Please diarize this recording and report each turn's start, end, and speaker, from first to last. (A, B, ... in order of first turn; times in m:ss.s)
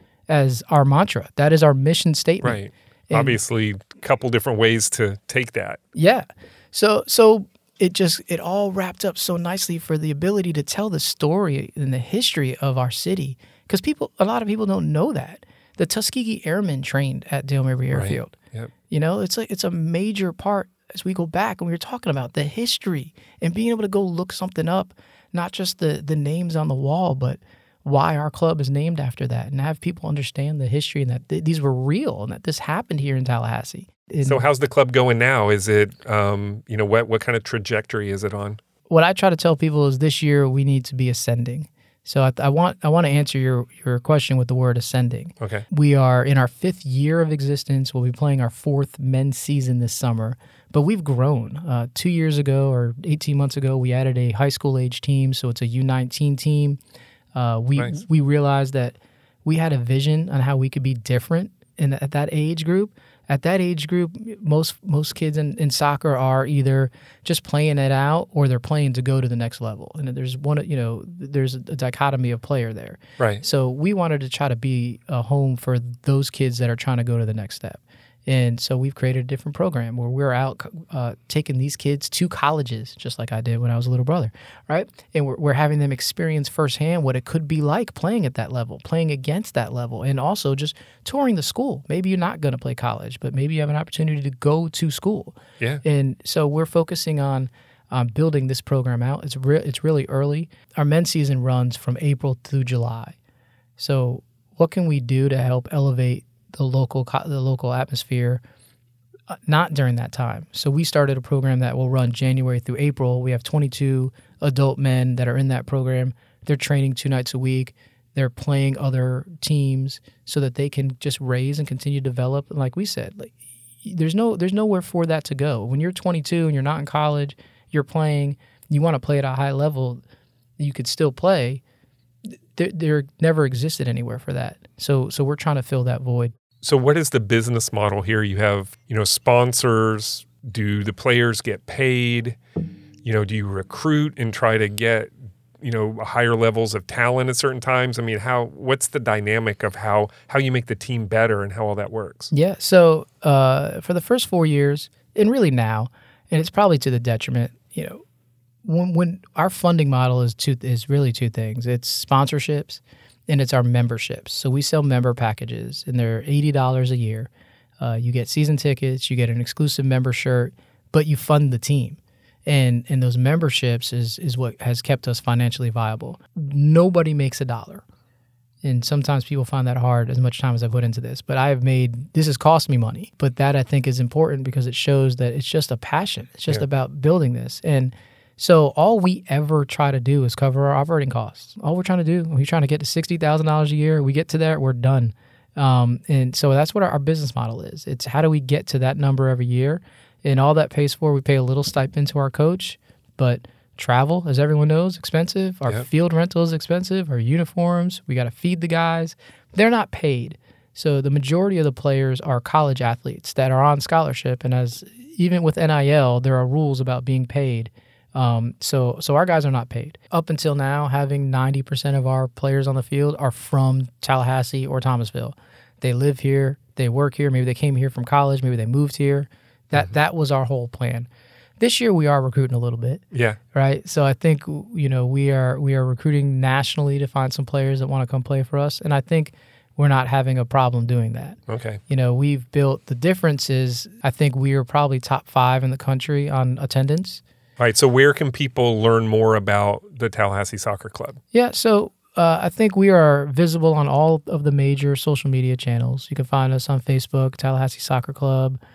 0:00.3-0:02.6 A
0:02.4-0:05.8 B
0:03.1-0:03.4 A
0:06.0-0:18.4 A
0:17.9-0:18.7 B
0:18.9-0:34.4 A
0:34.2-0:38.6 B
0:38.9-0:56.8 A
0:45.4-0:45.7 B
0:57.4-1:43.2 A
1:43.8-1:48.4 A
1:49.3-2:10.0 A
2:10.6-2:11.6 A
2:12.6-2:16.3 A
2:16.6-2:22.4 B
2:23.0-2:32.3 B
2:32.3-2:38.0 A
2:38.6-2:57.8 A
2:58.6-3:51.1 A
3:51.6-3:53.0 A
3:53.1-3:53.4 B
3:53.5-4:07.2 A
4:01.5-4:01.8 B
4:07.6-4:11.2 B
4:11.3-4:18.6 A